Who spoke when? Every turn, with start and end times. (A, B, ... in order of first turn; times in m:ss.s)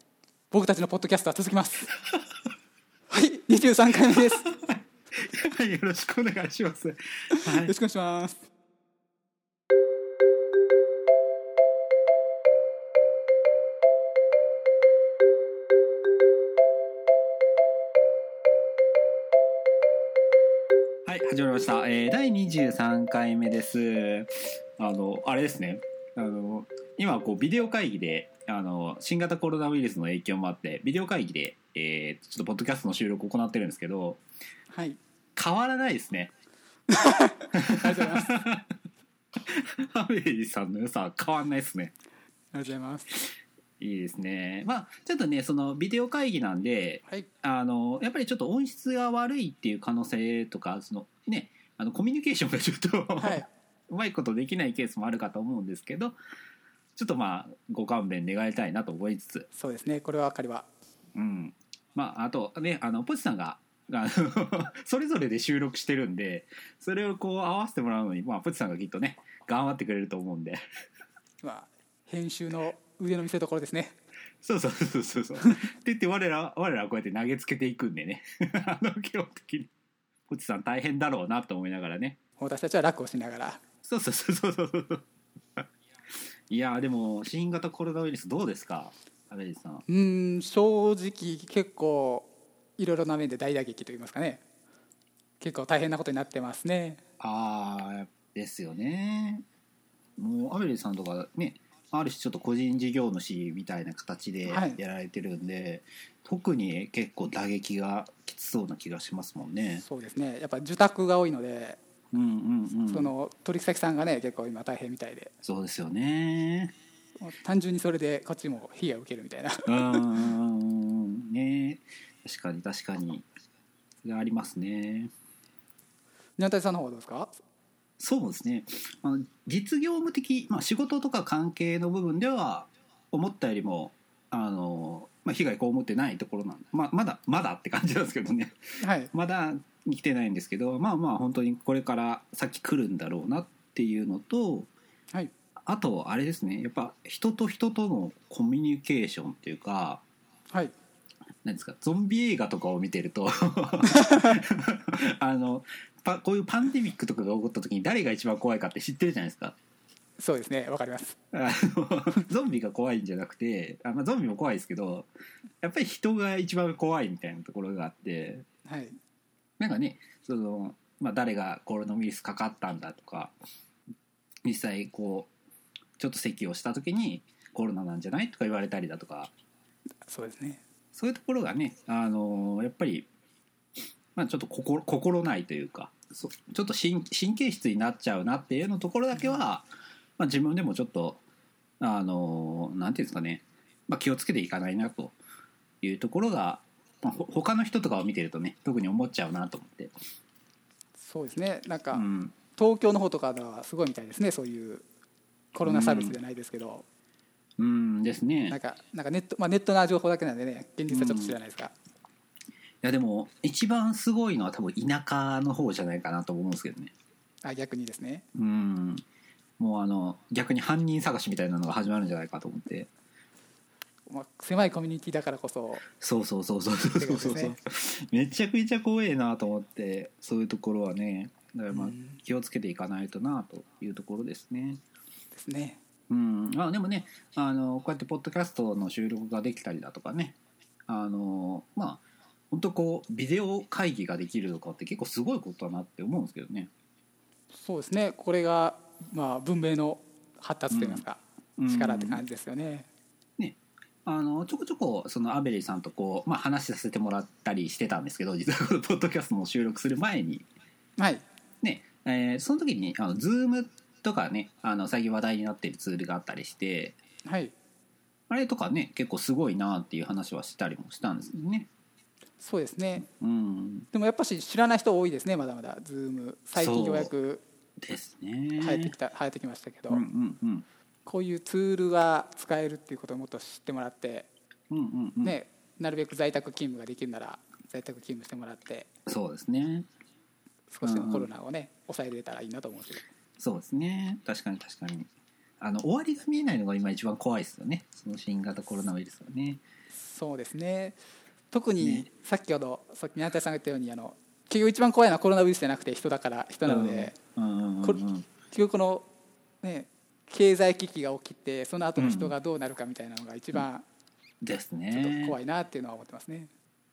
0:00.5-0:01.9 A
0:03.1-0:04.5 A
0:04.4-0:07.7 B
0:07.3-0:08.4 A
0:21.0-0:34.2 B
0:34.7-0:35.0 A
0:35.3-0:36.3 B
0:36.9-0:38.4 A
0:37.5-0:38.7 B
0:39.4-0:41.9 B
0:42.5-0:43.2 A
0:43.8-0:56.1 B
0:53.2-0:53.5 A
0:57.0-0:59.5 B
0:59.5-1:00.7 A
1:01.1-1:10.6 B
1:11.4-1:14.0 A
1:14.4-1:19.7 B
1:20.3-1:22.2 B
1:22.4-1:23.6 A
1:23.8-1:25.0 B
1:25.6-1:29.8 B
1:29.9-1:34.4 A
1:35.4-1:37.0 A
1:37.2-1:39.4 B
1:40.2-1:49.8 B
1:44.5-1:44.8 A
1:49.8-1:51.8 A
1:52.1-1:53.1 B
1:52.9-1:55.3 A
1:55.4-1:56.8 B
1:57.2-2:00.1 A
1:59.6-2:03.2 B
2:04.0-2:05.1 B
2:06.4-2:07.4 A
2:08.0-2:24.7 B
2:18.8-2:19.1 A
2:25.6-2:30.0 B
2:30.5-2:30.7 A
2:31.4-2:39.6 B
2:33.9-2:34.4 A
2:40.2-2:41.2 A
2:41.3-2:45.1 B
2:45.6-2:48.4 B
2:48.6-2:49.0 A
2:49.6-2:53.3 B
2:54.4-2:55.3 B
2:56.0-2:59.3 B
3:00.1-3:00.6 A
3:00.9-3:03.1 B
3:04.1-3:09.7 B
3:10.2-3:11.2 B
3:11.8-3:15.1 B
3:15.8-3:19.9 B
3:21.0-3:24.8 A
3:21.9-3:22.3 B
3:25.5-3:26.8 A
3:25.6-3:26.2 B
3:27.6-3:28.6 B
3:28.5-3:31.7 A
3:30.9-3:31.4 B
3:32.8-3:36.9 B
3:37.4-3:38.2 A
3:38.3-3:39.0 B
3:39.6-3:42.9 B
3:44.1-3:45.8 A
3:45.9-3:54.8 B
3:47.0-3:47.5 A
3:51.7-3:52.2 A
3:55.3-3:55.8 A
3:56.1-4:00.4 B
4:00.9-4:06.7 B
4:07.5-4:12.9 A
4:10.7-4:11.0 B
4:11.6-4:12.2 B
4:13.4-4:20.4 B
4:21.0-4:21.2 A
4:21.6-4:27.0 B
4:27.2-4:27.5 A
4:28.3-4:31.7 B
4:32.4-4:33.1 A
4:33.0-4:33.9 B
4:33.9-4:37.4 A
4:36.6-4:37.1 B
4:37.8-4:38.9 B
4:38.6-4:40.0 A
4:39.9-4:40.6 B
4:41.0-4:44.3 A
4:44.7-4:45.4 B
4:45.2-4:48.9 A
4:49.0-4:49.9 B
4:50.7-4:53.0 A
4:50.8-4:51.3 B
4:53.4-4:59.6 B
5:00.0-5:01.0 A
5:01.5-5:07.1 A
5:01.8-5:02.1 B
5:06.6-5:08.3 B
5:07.8-5:09.1 A
5:09.6-5:13.8 A
5:12.0-5:12.3 B
5:14.4-5:15.4 B
5:14.9-5:16.5 A